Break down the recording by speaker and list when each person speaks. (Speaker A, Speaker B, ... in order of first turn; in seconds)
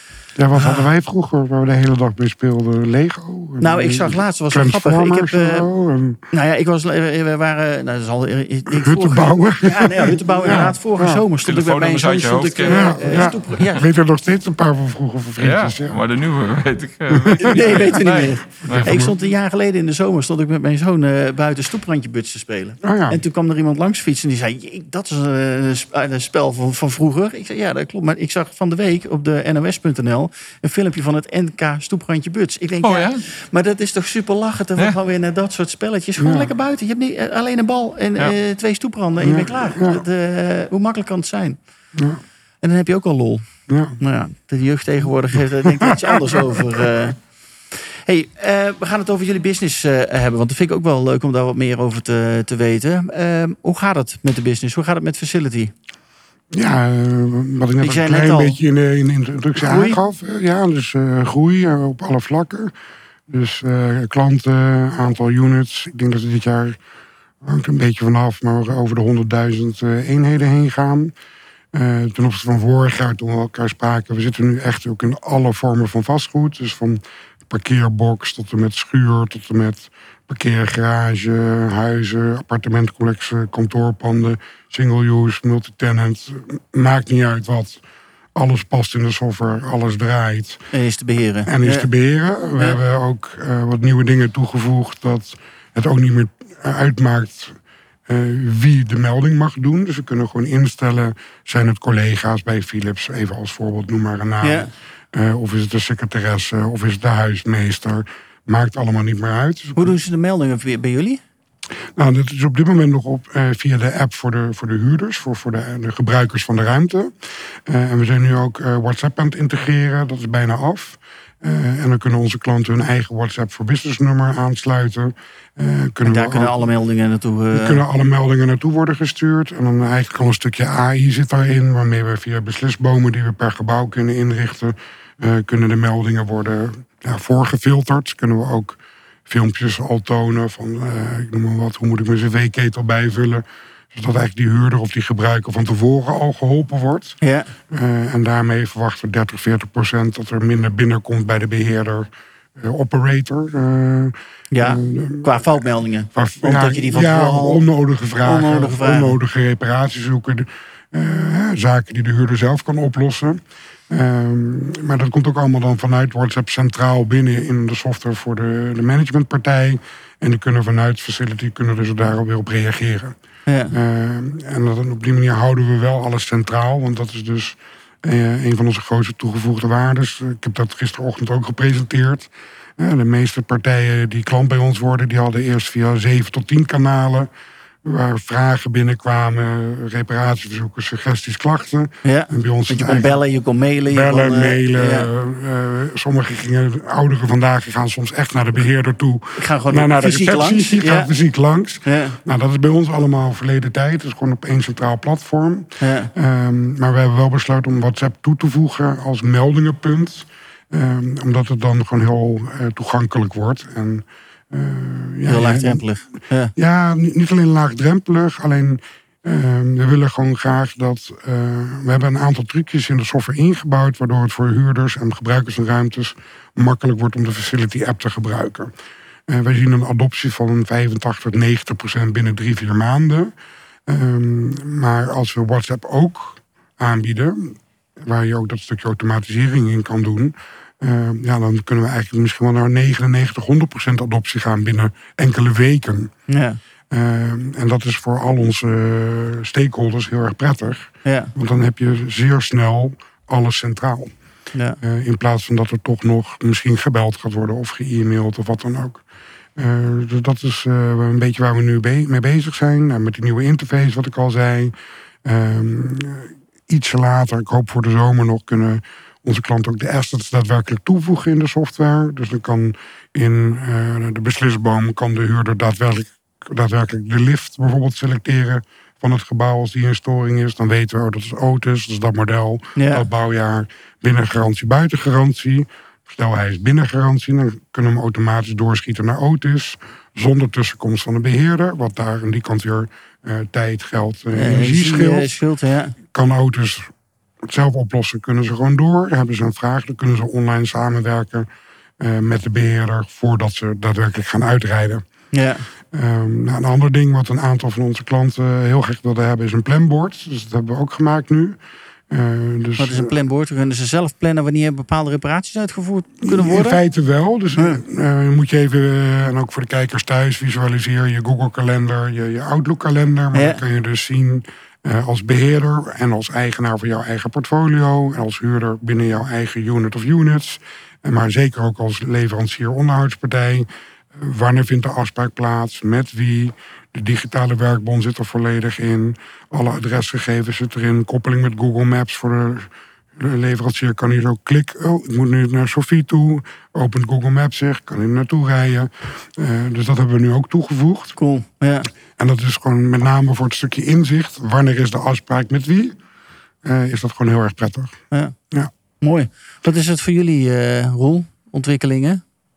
Speaker A: 0.3-6.2, 8.7-11.2, 12.7-16.0, 17.1-17.9, 18.7-19.1, 22.8-23.2, 36.2-36.5, 39.2-40.0, 41.9-42.2, 43.7-44.0, 45.7-46.6, 56.5-62.7, 63.3-66.8, 67.4-71.1, 71.7-87.8, 88.3-90.6, 91.5-109.9, 112.0-126.5, 127.5-147.2, 147.7-155.6, 156.1-173.2, 173.7-187.3, 187.8-193.1, 193.9-215.8, 216.6-228.7, 229.3-233.3, 233.9-246.1, 246.9-254.1, 254.8-259.0, 259.6-264.7, 265.2-295.3, 296.1-296.9, 297.4-301.5, 302.0-305.0, 305.9-311.6, 312.1-313.1, 316.2-351.1, 352.2-356.0, 356.6-357.9
Speaker B: 0.5-0.9, 3.6-5.7, 6.3-13.8, 17.4-41.6, 42.6-47.2, 47.7-55.7, 57.8-58.6, 59.6-60.0, 90.7-91.9, 104.4-104.7, 109.8-111.2, 126.0-127.8, 147.2-147.5, 154.5-157.6, 158.2-159.2, 173.5-173.7, 192.0-195.1, 199.4-201.1, 201.8-202.2, 205.8-206.1, 215.3-216.5, 246.3-246.6, 251.0-251.3, 282.8-283.1, 294.3-295.9, 305.3-305.6, 312.8-316.8, 323.3-323.6, 351.2-351.9, 359.0-362.2
Speaker C: 11.4-13.3, 15.4-19.0, 32.8-33.2